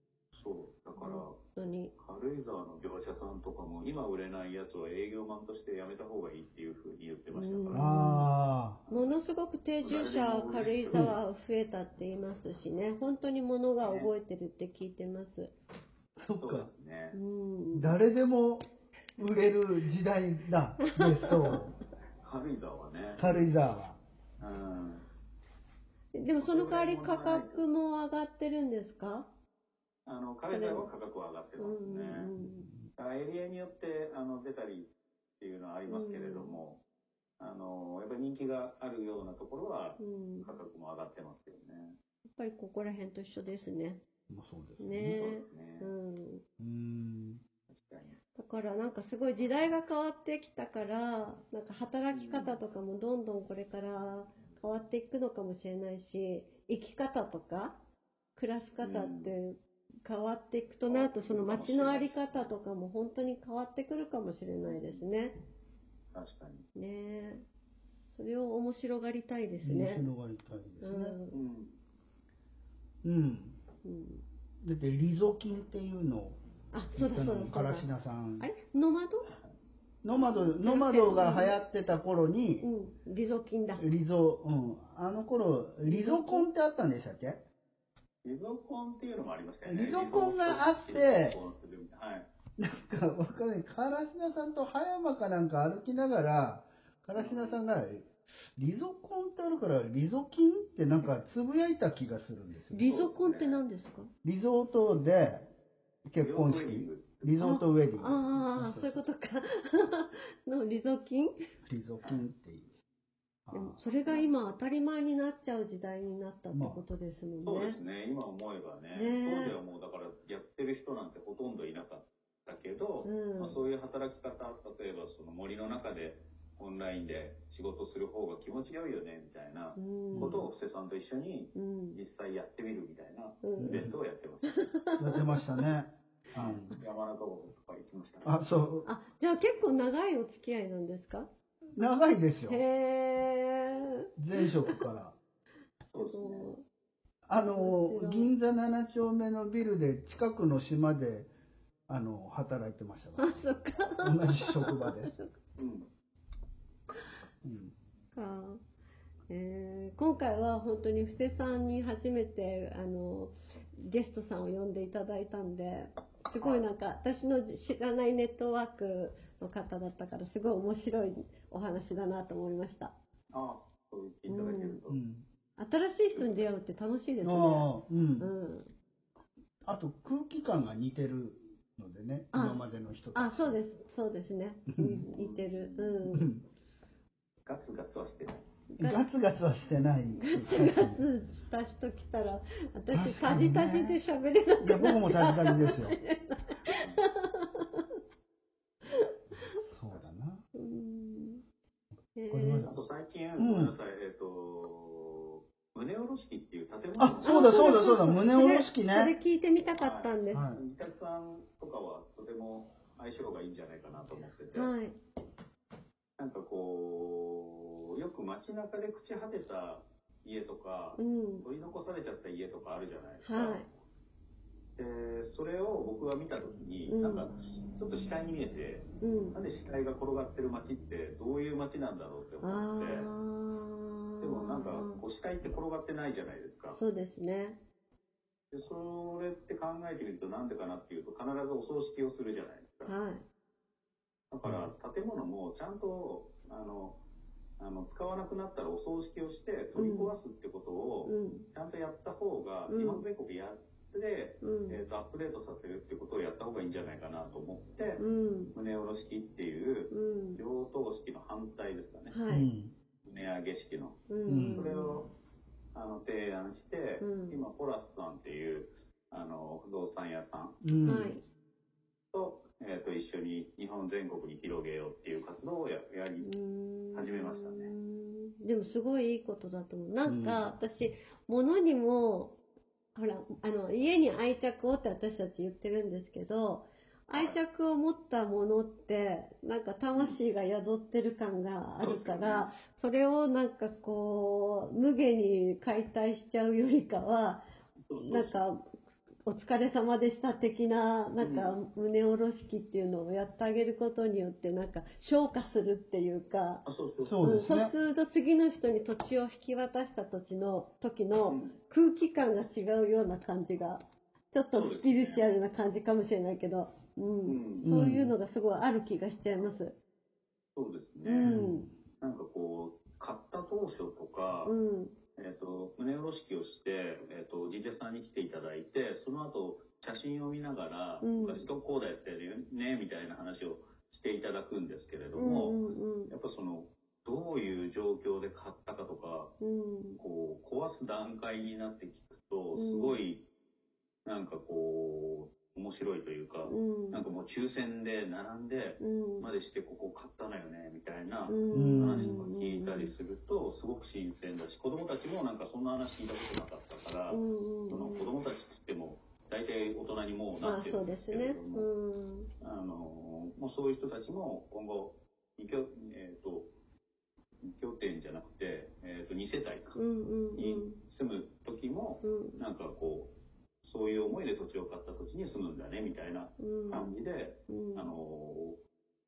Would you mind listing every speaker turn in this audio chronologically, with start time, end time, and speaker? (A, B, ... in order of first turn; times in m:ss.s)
0:00.3-0:01.4 A
0:01.0-0:01.9 B
0:02.0-0:07.9 A
0:07.3-0:08.3 B
0:07.7-0:08.8 C
0:08.9-0:09.2 A
0:08.9-0:15.5 B
0:09.8-0:11.2 A
0:10.9-0:11.2 C
0:13.8-0:14.1 A
0:16.2-0:16.7 C
0:16.4-0:17.2 A
0:17.1-0:17.9 B
0:17.7-0:18.6 C
0:19.2-0:21.7 C
0:20.8-0:21.7 B
0:22.2-0:23.3 A
0:23.2-0:24.0 C
0:23.2-0:23.5 B
0:24.4-0:25.0 A
0:26.1-0:29.3 B
0:26.4-0:27.6 A
0:30.0-0:32.3 A
0:30.5-0:30.9 B
0:31.6-0:32.7 B
0:33.0-0:36.8 A
0:35.9-0:36.6 B
0:37.4-0:42.0 A
0:40.0-0:40.5 B
0:42.3-0:44.0 B
0:44.3-0:45.2 C
0:44.8-0:46.4 B
0:45.1-0:45.9 A
0:46.6-0:47.4 C
0:47.7-0:48.2 A
0:48.4-0:57.8 B
0:52.1-0:52.6 A
0:58.3-1:05.4 B
0:58.8-0:59.4 A
1:00.9-1:02.5 A
1:04.6-1:05.0 A
1:06.1-1:06.6 A
1:06.7-1:07.4 B
1:08.1-1:10.1 B
1:09.6-1:11.2 C
1:10.8-1:11.4 B
1:11.3-1:11.8 A
1:13.0-1:13.6 C
1:13.8-1:14.2 B
1:14.6-1:16.4 C
1:16.7-1:19.3 B
1:17.0-1:18.5 C
1:20.0-1:22.7 C
1:20.1-1:20.5 A
1:20.6-1:21.6 B
1:22.6-1:23.8 B
1:23.8-1:27.4 C
1:25.8-1:26.5 B
1:28.2-1:32.3 A
1:29.6-1:31.4 C
1:32.6-1:42.9 C
1:37.1-1:37.6 A
1:42.7-1:44.1 B
1:42.8-1:43.6 A
1:44.2-1:45.5 C
1:46.1-1:49.1 C
1:46.2-1:47.4 A
1:47.4-1:51.3 B
1:51.6-1:52.7 C
1:53.4-1:53.8 C
1:53.5-1:57.8 B
1:54.0-1:54.3 A
1:56.5-1:56.8 C
1:57.4-2:14.8 A
1:58.9-1:59.6 B
2:03.0-2:03.6 B
2:09.8-2:10.4 B
2:10.2-2:10.5 C
2:11.5-2:12.0 B
2:13.4-2:13.8 B
2:13.6-2:13.9 C
2:14.5-2:15.4 B
2:15.0-2:16.8 C
2:16.3-2:18.4 A
2:18.2-2:18.9 C
2:18.8-2:21.3 B
2:21.8-2:22.6 C
2:22.5-2:24.4 B
2:24.2-2:25.2 C
2:25.9-2:26.5 A
2:26.1-2:26.6 B
2:27.3-2:31.3 C
2:27.4-2:28.3 B
2:31.9-2:33.4 C
2:33.2-2:35.4 B
2:34.0-2:35.2 C
2:35.6-2:35.9 A
2:37.4-2:37.7 C
2:38.1-2:38.6 B
2:39.3-2:52.9 B
2:46.4-2:46.6 A
2:53.3-2:55.0 A
2:54.3-2:54.8 B
2:54.9-2:55.2 C
2:55.6-2:58.7 B
2:56.2-2:56.4 A
2:57.2-2:58.3 C
2:59.6-3:03.6 C
3:02.3-3:06.3 B
3:04.8-3:05.0 C
3:05.1-3:06.0 A
3:06.1-3:06.4 C
3:07.4-3:08.4 A
3:08.7-3:09.1 B
3:08.8-3:11.0 C
3:10.2-3:17.8 B
3:12.9-3:14.0 C
3:14.6-3:16.0 C
3:16.7-3:17.0 A
3:19.7-3:20.4 C
3:20.5-3:21.4 B
3:22.1-3:22.7 B
3:22.3-3:22.7 C
3:22.6-3:27.6 A
3:23.4-3:23.7 C
3:27.0-3:29.1 C
3:27.2-3:30.5 B
3:29.8-3:34.7 A
3:30.3-3:30.6 C
3:34.5-3:35.0 B
3:36.2-3:43.7 A
3:41.0-3:41.4 B
3:43.2-3:43.7 B
3:44.8-3:53.1 A
3:46.9-3:47.3 B
3:49.0-3:49.4 B
3:52.4-3:55.0 B
3:54.2-3:56.8 A
3:56.7-3:57.6 B
3:58.5-4:02.9 A
4:02.8-4:03.2 B
4:04.3-4:07.0 A
4:04.4-4:04.7 C
4:07.6-4:18.0 A
4:09.7-4:10.1 B
4:11.0-4:11.5 B
4:12.7-4:13.0 B
4:14.4-4:14.8 B
4:18.0-4:18.5 B
4:18.5-4:22.2 A
4:19.9-4:20.4 B
4:22.1-4:22.5 B
4:22.3-4:22.7 C
4:23.0-4:24.0 A
4:24.1-4:25.0 B
4:24.2-4:24.7 C
4:24.5-4:25.1 A
4:25.7-4:30.6 A
4:27.0-4:27.4 B
4:30.6-4:31.2 C
4:30.8-4:31.2 B
4:32.1-4:36.3 A
4:36.2-4:42.4 B
4:36.9-4:37.7 A
4:40.0-4:40.5 C
4:42.9-4:57.4 B
4:47.1-4:47.4 A
4:49.9-4:50.2 A
4:51.8-4:52.5 A
4:57.9-4:58.4 A
4:58.0-4:58.7 B
4:59.2-5:06.6 B
5:01.2-5:01.6 A
5:06.6-5:07.2 A
5:07.0-5:07.7 C
5:07.2-5:19.8 B
5:11.3-5:11.6 A
5:14.5-5:15.2 A
5:17.2-5:17.6 A
5:17.6-5:18.1 C
5:20.6-5:21.4 A
5:21.0-5:21.7 B
5:21.2-5:21.7 C
5:22.0-5:24.5 A
5:24.4-5:24.9 B
5:25.2-5:39.3 A
5:31.0-5:31.5 B
5:35.2-5:36.1 B
5:39.4-5:40.0 B
5:40.0-5:43.2 A
5:42.5-5:43.0 B
5:44.0-6:01.7 A
5:46.5-5:47.0 B
5:48.8-5:49.3 B
5:51.3-5:52.9 B
5:51.5-5:52.2 C
5:57.1-5:58.1 B
6:00.4-6:02.3 B
6:02.4-6:06.5 A
6:07.4-6:09.8 A
6:09.7-6:10.8 B
6:10.4-6:13.1 A
6:12.0-6:12.4 B
6:13.6-6:18.6 A
6:16.4-6:17.0 B
6:17.5-6:18.0 B